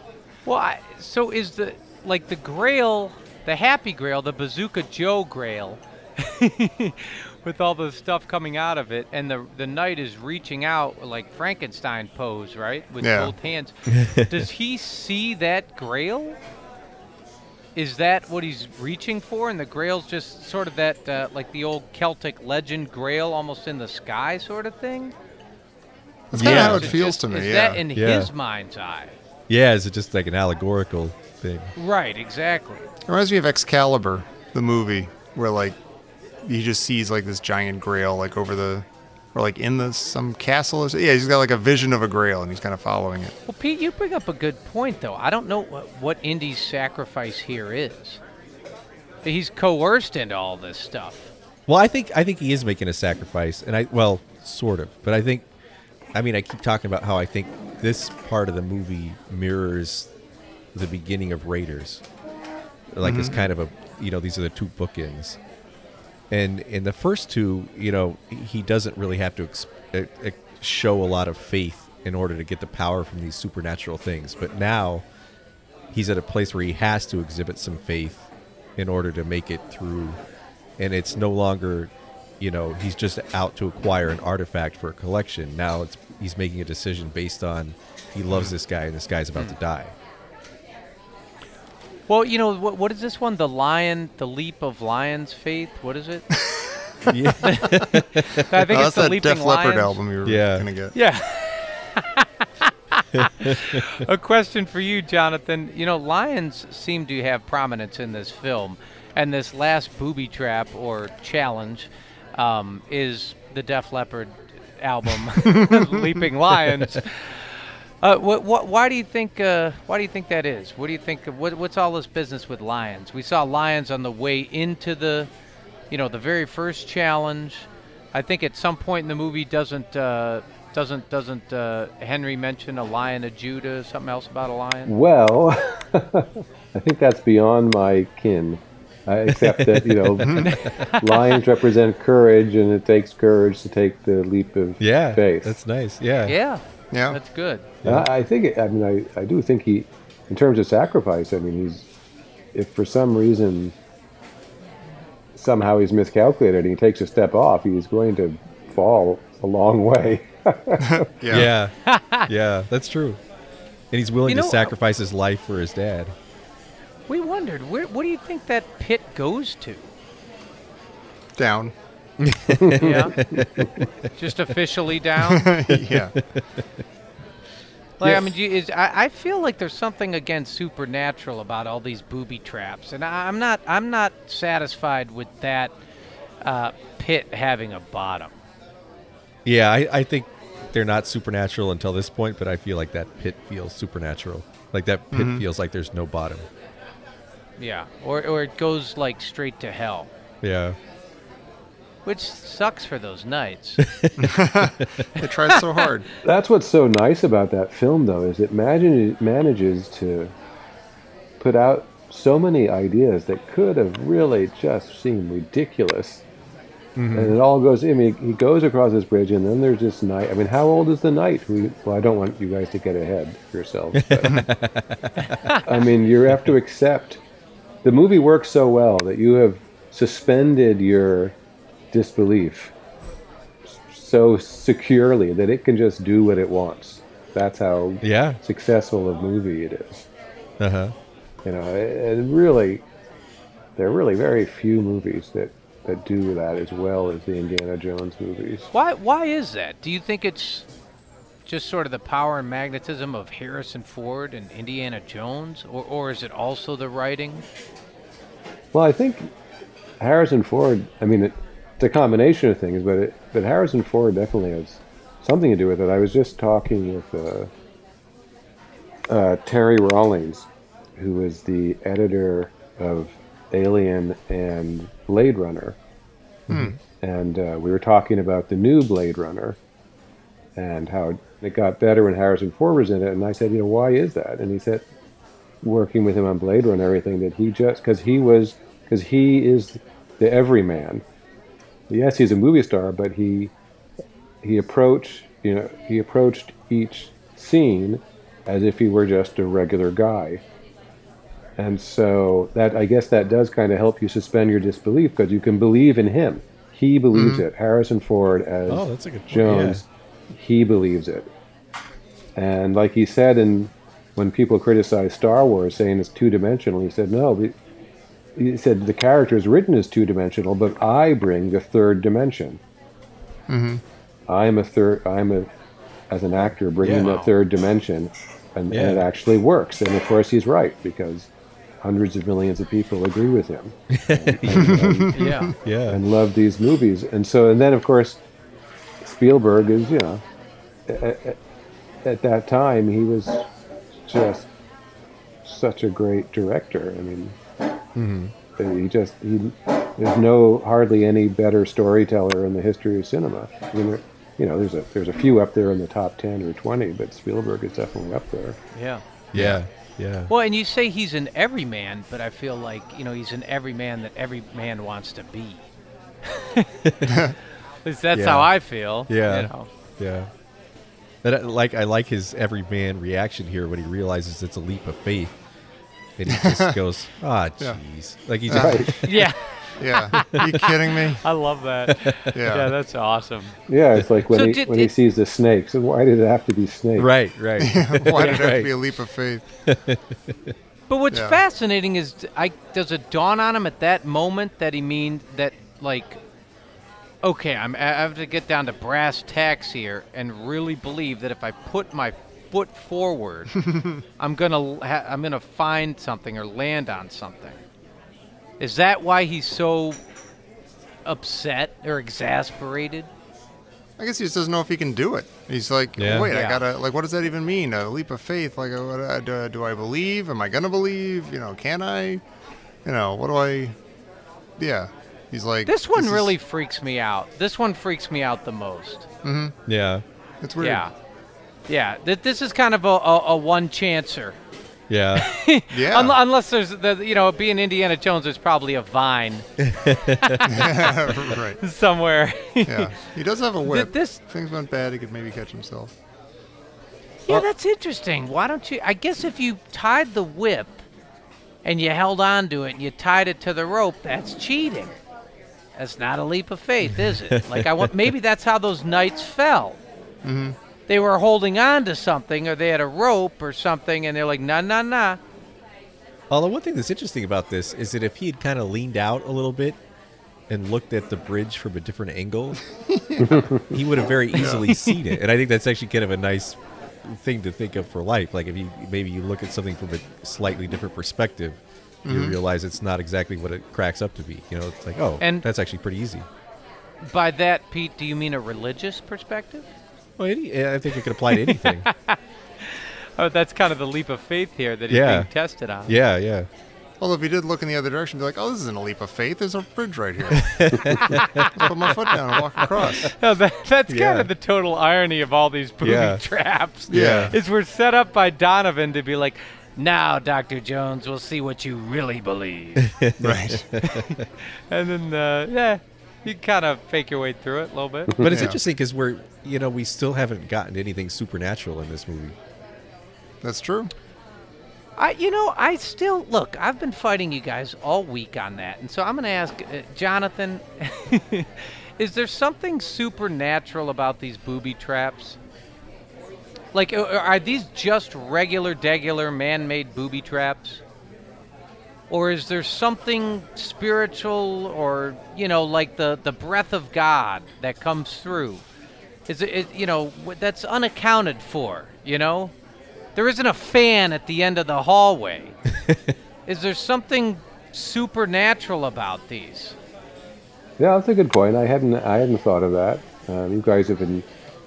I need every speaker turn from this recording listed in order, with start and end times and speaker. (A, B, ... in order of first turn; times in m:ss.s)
0:00.4-0:16.4 A
0:13.0-0:13.3 B
0:13.9-0:14.4 C
0:17.8-0:25.1 A
0:26.3-0:27.8 B
0:26.3-0:27.0 C
0:26.3-0:29.2 A
0:27.9-0:28.3 C
0:29.5-0:31.7 C
0:31.8-0:32.9 A
0:33.1-0:35.8 B
0:36.4-0:43.3 B
0:43.5-0:48.2 A
0:49.2-0:51.3 A
0:51.7-0:55.4 C
0:56.1-1:00.1 C
1:00.7-1:02.0 C
1:02.9-1:05.4 C
1:03.0-1:03.4 B
1:06.3-1:15.0 C
1:15.9-1:20.2 C
1:20.8-1:29.9 C
1:32.1-1:36.2 A
1:36.5-1:37.1 B
1:37.1-1:38.4 C
1:37.4-1:37.7 A
1:38.4-1:40.0 A
1:38.7-1:40.9 B
1:40.2-1:40.6 C
1:40.9-2:05.3 A
1:43.4-1:43.8 C
1:55.4-1:56.1 B
2:05.9-2:14.9 A
2:14.8-2:25.5 D
2:19.3-2:20.8 C
2:20.2-2:20.5 B
2:20.4-2:21.2 A
2:24.8-2:26.4 C
2:26.2-2:27.6 A
2:26.9-2:27.2 B
2:27.8-2:31.9 D
2:32.5-2:33.7 D
2:35.3-2:41.0 D
2:40.8-2:41.5 B
2:41.3-2:41.7 C
2:41.8-2:42.3 A
2:42.2-2:43.2 C
2:43.9-2:46.1 C
2:44.3-2:44.7 A
2:47.1-2:49.9 A
2:51.4-2:51.7 B
2:52.2-2:53.9 C
2:52.6-2:53.7 D
2:52.8-2:53.1 A
2:54.2-2:55.5 A
2:55.2-2:56.1 B
2:55.7-2:56.6 C
2:58.0-3:05.7 A
3:06.4-3:08.3 A
3:09.4-3:16.5 C
3:15.1-3:15.4 B
3:17.6-3:20.1 A
3:20.4-3:20.8 C
3:22.0-3:23.8 A
3:23.9-3:25.0 C
3:24.2-3:26.0 B
3:26.2-3:30.3 D
3:31.4-3:36.2 D
3:37.0-3:37.4 C
3:37.1-3:44.5 D
3:44.0-3:45.5 C
3:45.2-3:45.6 A
3:45.6-3:47.2 D
3:47.8-3:51.4 D
3:51.9-3:52.7 D
3:53.7-4:00.0 D
3:58.0-3:58.4 C
4:00.6-4:00.9 C
4:01.4-4:02.8 D
4:03.8-4:08.7 D
4:08.7-4:10.7 A
4:11.4-4:17.4 A
4:18.7-4:19.3 D
4:20.0-4:27.5 D
4:29.1-4:35.8 D
4:36.5-4:36.7 B
4:36.8-4:39.6 D
4:40.6-4:44.8 D
4:45.6-4:51.0 D
4:51.9-4:53.5 D
4:54.4-5:00.4 D
5:01.6-5:11.3 D
5:07.1-5:07.4 B
5:08.7-5:09.8 C
5:12.4-5:17.5 D
5:18.4-5:22.6 D
5:23.5-5:23.8 B
5:24.3-5:25.5 D
5:26.1-5:31.3 D
5:26.8-5:27.1 C
5:26.8-5:27.3 A
5:28.7-5:29.0 C
5:31.8-5:35.2 D
5:33.9-5:34.9 C
5:34.5-5:35.5 B
5:35.1-5:35.5 A
5:35.6-5:36.0 C
5:35.9-5:38.2 D
5:39.0-5:40.2 D
5:40.9-5:41.4 D
5:42.0-5:43.5 D
5:44.0-5:44.5 D
5:45.4-5:47.4 D
5:48.0-5:48.3 C
5:48.6-5:58.6 D
5:58.7-5:59.0 A
5:59.3-6:00.3 C
5:59.3-5:59.6 B
6:00.3-6:05.6 A
6:06.2-6:06.6 A
6:07.0-6:07.3 B
6:07.8-6:09.7 A
6:08.1-6:10.3 C
6:11.2-6:15.3 C
6:16.2-6:19.2 C
6:16.3-6:16.7 B
6:18.5-6:19.0 B
6:18.5-6:18.9 D
6:19.0-6:23.6 A
6:19.8-6:21.2 B
6:22.3-6:22.7 B
6:23.7-6:27.1 D
6:24.3-6:24.9 A
6:27.0-6:28.7 C
6:27.6-6:29.4 B
6:29.7-6:30.3 C
6:30.9-6:36.2 A
6:31.1-6:31.4 B
6:37.2-6:43.5 A
6:44.2-6:47.6 A
6:48.6-6:50.0 A
6:51.0-6:53.1 A
6:54.0-7:02.2 B
6:56.0-6:56.3 C
6:56.3-6:56.6 A
7:02.8-7:03.7 B
7:04.6-7:06.3 B
7:05.6-7:09.1 A
7:09.2-7:09.5 B
7:09.7-7:10.0 C
7:10.4-7:10.8 B
7:10.6-7:10.9 A
7:11.7-7:14.4 A
7:14.9-7:15.3 C
7:15.1-7:19.4 A
7:15.7-7:16.2 B
7:19.6-7:20.4 C
7:20.2-7:20.9 A
7:20.5-7:21.6 B
7:21.6-7:22.9 A
7:22.6-7:25.9 B
7:23.6-7:24.2 A
7:27.2-7:30.8 A
7:31.6-7:35.0 A
7:35.8-7:39.8 A
7:36.9-7:37.9 C
7:40.2-7:40.6 B
7:40.9-7:45.2 A
7:46.3-7:49.8 C
7:50.5-7:52.6 C
7:52.9-7:53.5 B
7:53.2-7:53.8 D
7:53.7-8:06.3 C
7:54.4-7:54.6 B
7:54.4-7:55.0 A
8:02.0-8:02.4 B
8:05.2-8:05.4 A
8:07.0-8:09.7 A
8:10.2-8:11.9 C
8:11.3-8:16.0 A
8:14.9-8:15.3 C
8:15.9-8:16.5 C
8:17.0-8:21.0 B
8:20.4-8:21.5 C
8:20.9-8:21.7 A
8:21.6-8:23.1 B
8:22.6-8:32.8 A
8:23.9-8:24.3 C
8:25.8-8:26.2 C
8:26.9-8:27.3 C
8:26.9-8:27.4 B
8:32.8-8:34.2 C
8:33.2-8:33.6 B
8:34.7-8:38.1 A
8:38.1-8:38.5 D
8:38.2-8:42.3 C
8:38.2-8:38.6 B
8:43.4-8:43.9 B
8:45.0-8:55.4 A
8:56.7-9:00.8 A
9:02.1-9:08.6 A
9:09.3-9:12.5 A
9:13.2-9:15.6 A
9:16.5-9:19.8 A
9:20.8-9:24.2 D